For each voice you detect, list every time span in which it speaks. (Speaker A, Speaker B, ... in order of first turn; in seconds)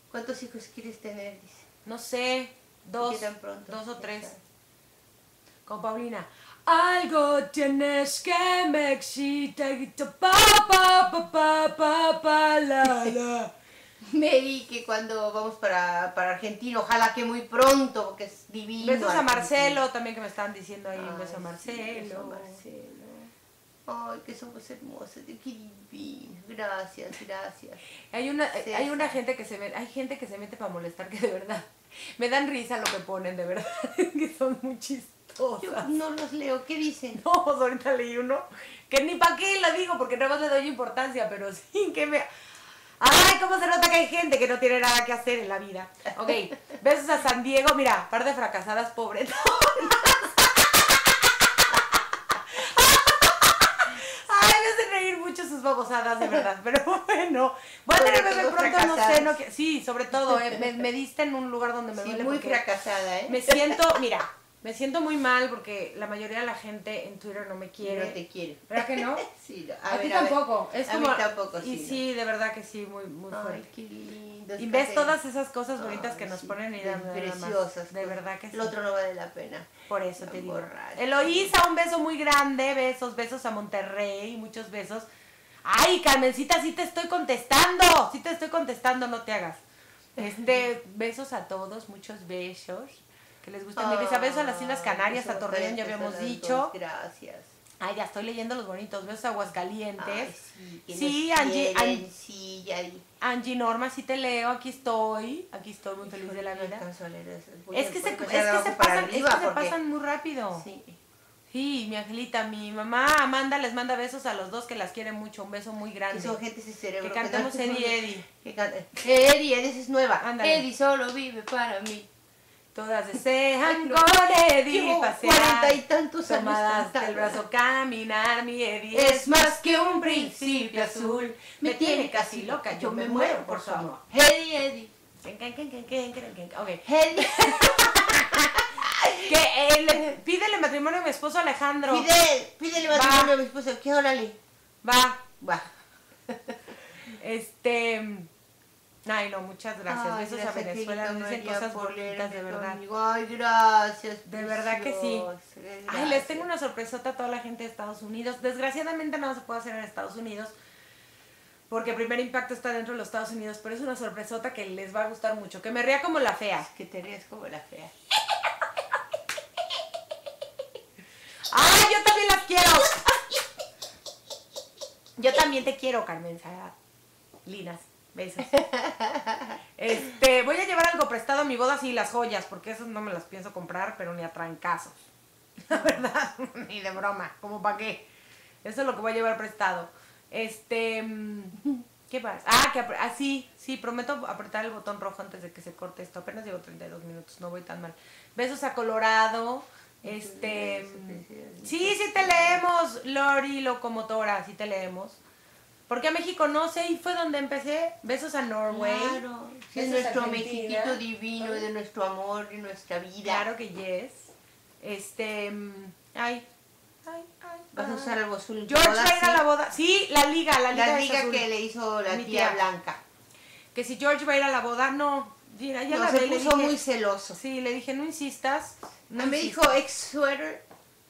Speaker A: 0.1-1.6, 3.0-4.4, 12.8-13.1, 14.0-19.8, 20.9-23.3, 23.9-27.8, 28.5-29.2, 35.6-37.2, 57.9-59.4, 60.3-60.7, 61.9-63.8, 67.8-72.0, 73.3-75.2, 75.8-81.5, 90.2-90.7, 93.8-97.5, 100.0-103.0, 106.0-109.8, 110.5-111.0, 116.1-122.1, 123.6-124.1, 124.7-127.4, 128.9-134.9, 136.8-139.3, 141.8-144.4, 145.4-145.7, 149.9-156.5, 166.6-167.9, 178.6-179.5, 200.0-202.6, 208.7-213.5, 217.7-219.4, 220.7-223.0, 225.9-227.4, 229.2-230.6
Speaker B: 1.9-4.3, 5.7-13.5, 18.8-22.6, 28.1-35.9, 37.1-42.3, 43.0-62.6, 63.3-68.2, 68.7-69.2, 69.8-73.7, 74.6-78.7, 79.9-85.1, 85.6-89.6, 90.2-96.7, 97.8-100.3, 100.9-102.0, 103.2-106.8, 107.7-110.6, 111.5-116.4, 117.0-118.2, 120.2-120.6, 122.7-134.0, 135.2-142.1, 142.9-143.3, 144.8-145.3, 147.1-148.3, 149.0-152.8, 154.2-155.3, 155.9-160.5, 161.7-166.7, 171.5-173.1, 175.2-176.7, 177.4-178.6, 179.8-185.0, 185.6-188.0, 188.6-205.2, 205.9-209.2, 209.7-211.7, 213.2-216.4, 217.0-218.1, 218.7-221.5, 222.1-222.6, 223.7-226.8, 227.3-229.8